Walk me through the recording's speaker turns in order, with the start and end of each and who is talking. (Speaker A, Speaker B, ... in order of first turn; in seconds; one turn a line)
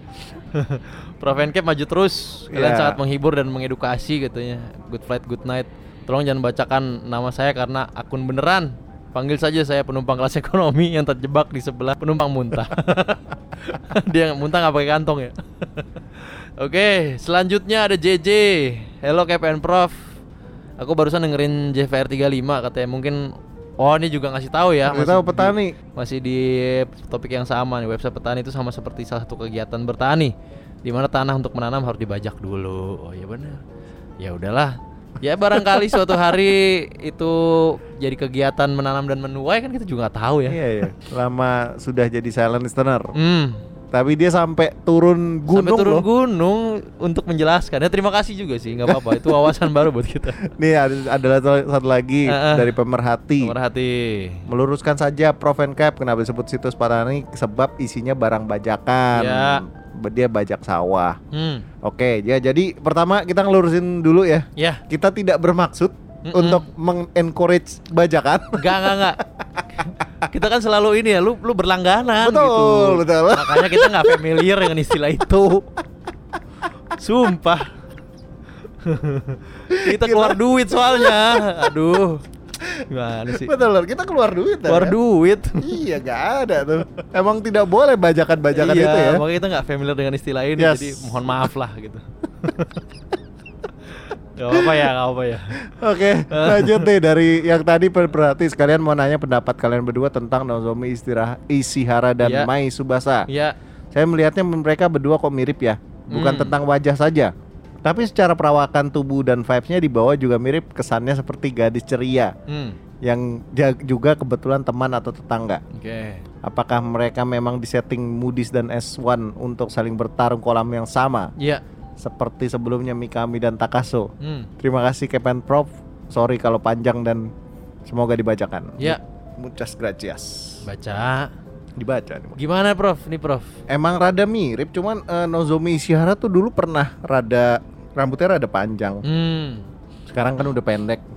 Speaker A: 0.4-20.1
Speaker B: 2.5-3.0
Speaker A: 20.8-33.6
Speaker B: 24.9-25.8
Speaker A: 34.2-40.6
Speaker B: 35.6-36.1
Speaker B: 40.5-43.1
Speaker A: 43.1-43.6
Speaker B: 43.9-46.0
Speaker A: 45.5-50.5
Speaker B: 48.9-49.7
Speaker B: 50.4-53.5
Speaker A: 52.3-52.7
Speaker A: 53.4-54.5
Speaker B: 54.5-61.2
Speaker A: 59.1-59.6
Speaker A: 61.3-61.7
Speaker B: 61.8-69.9
Speaker A: 64.6-64.8
Speaker A: 66.3-66.7
Speaker A: 68.6-69.2
Speaker A: 70.2-75.7
Speaker B: 72.2-74.5
Speaker A: 76.9-77.7
Speaker A: 78.8-82.2
Speaker B: 79.7-81.7
Speaker B: 82.6-85.0
Speaker A: 82.9-83.5
Speaker A: 84.7-85.8
Speaker B: 85.6-89.2
Speaker A: 88.5-92.8
Speaker B: 90.6-91.3
Speaker A: 93.9-95.7
Speaker B: 94.5-94.9
Speaker B: 95.6-103.3
Speaker A: 96.3-96.9
Speaker A: 102.2-102.5
Speaker A: 103.3-103.6
Speaker B: 103.9-107.3
Speaker A: 106.1-106.6
Speaker B: 107.8-112.3
Speaker A: 112.5-112.8
Speaker B: 113.0-115.6
Speaker A: 115.7-116.2
Speaker B: 116.4-121.3
Speaker B: 122.0-124.1
Speaker A: 124.2-124.5
Speaker B: 124.6-127.3
Speaker B: 127.8-130.7
Speaker A: 130.6-131.3
Speaker B: 131.8-132.4
Speaker A: 132.3-133.5
Speaker B: 133.7-139.0
Speaker A: 139.0-139.7
Speaker B: 140.1-141.1